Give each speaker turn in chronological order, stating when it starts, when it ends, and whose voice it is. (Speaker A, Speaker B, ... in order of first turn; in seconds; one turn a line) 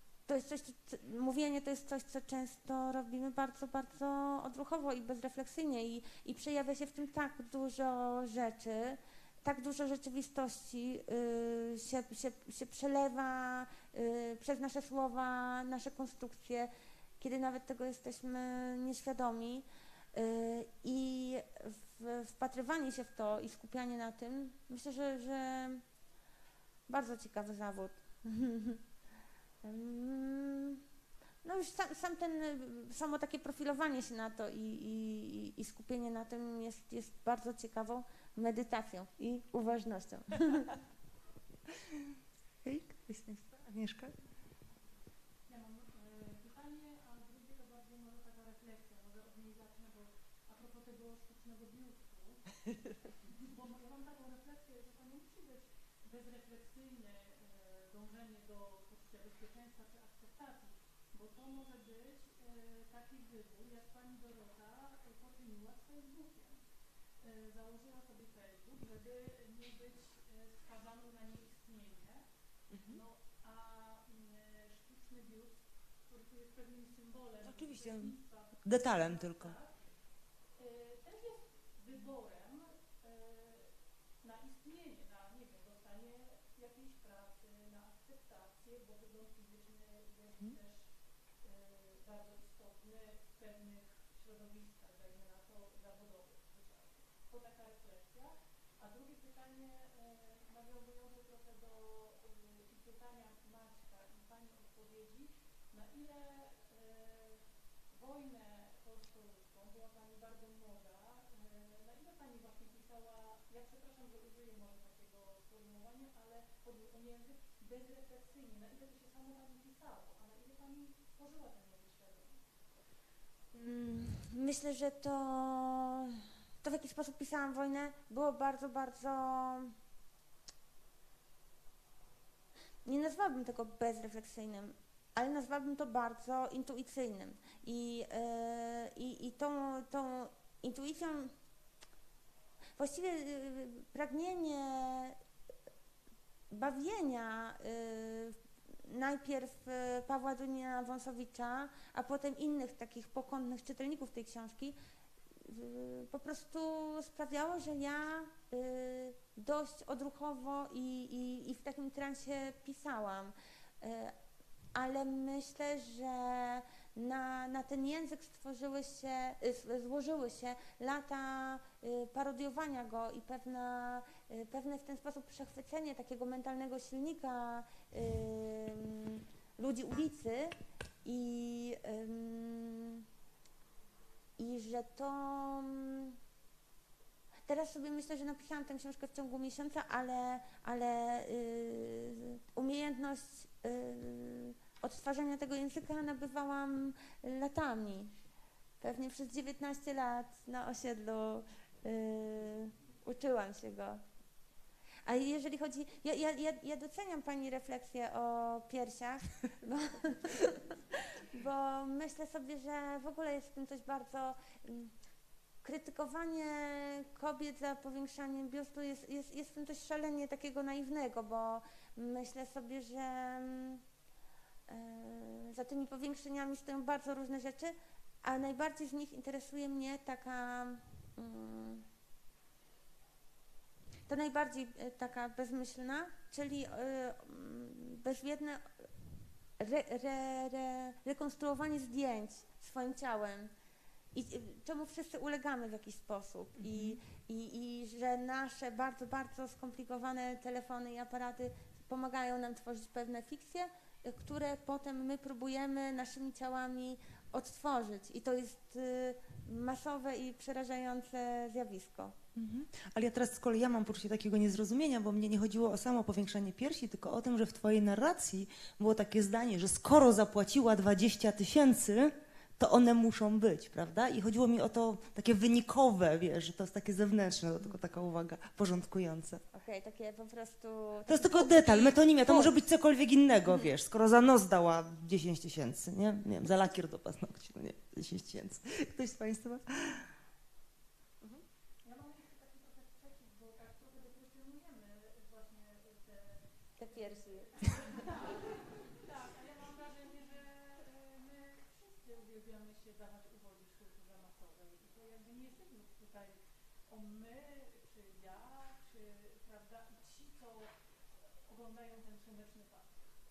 Speaker A: 0.3-25.8
Speaker A: 26.9-28.8
Speaker A: 29.6-30.8
Speaker A: 31.4-40.7
Speaker B: 41.7-42.1
Speaker B: 42.6-44.1
Speaker C: 45.5-52.6
Speaker C: 53.3-66.6
Speaker C: 67.2-79.7
Speaker B: 72.7-73.0
Speaker B: 77.4-79.5
Speaker C: 80.5-122.4
Speaker A: 123.5-129.7
Speaker A: 132.8-141.3
Speaker A: 142.8-145.2
Speaker A: 146.5-154.8
Speaker A: 155.4-164.1
Speaker A: 164.7-183.0
Speaker A: 184.4-186.2
Speaker A: 187.5-198.1
Speaker A: 198.8-204.0
Speaker A: 205.1-214.9
Speaker A: 215.6-223.8
Speaker A: 224.7-231.8
Speaker A: 234.1-238.8
Speaker A: 239.6-243.5
Speaker A: 244.1-262.1
Speaker B: 246.6-247.0
Speaker B: 262.3-279.4
Speaker A: 279.5-282.5
Speaker B: 281.1-290.1
Speaker C: 291.8-310.7
Speaker A: 296.8-297.7
Speaker C: 311.4-312.9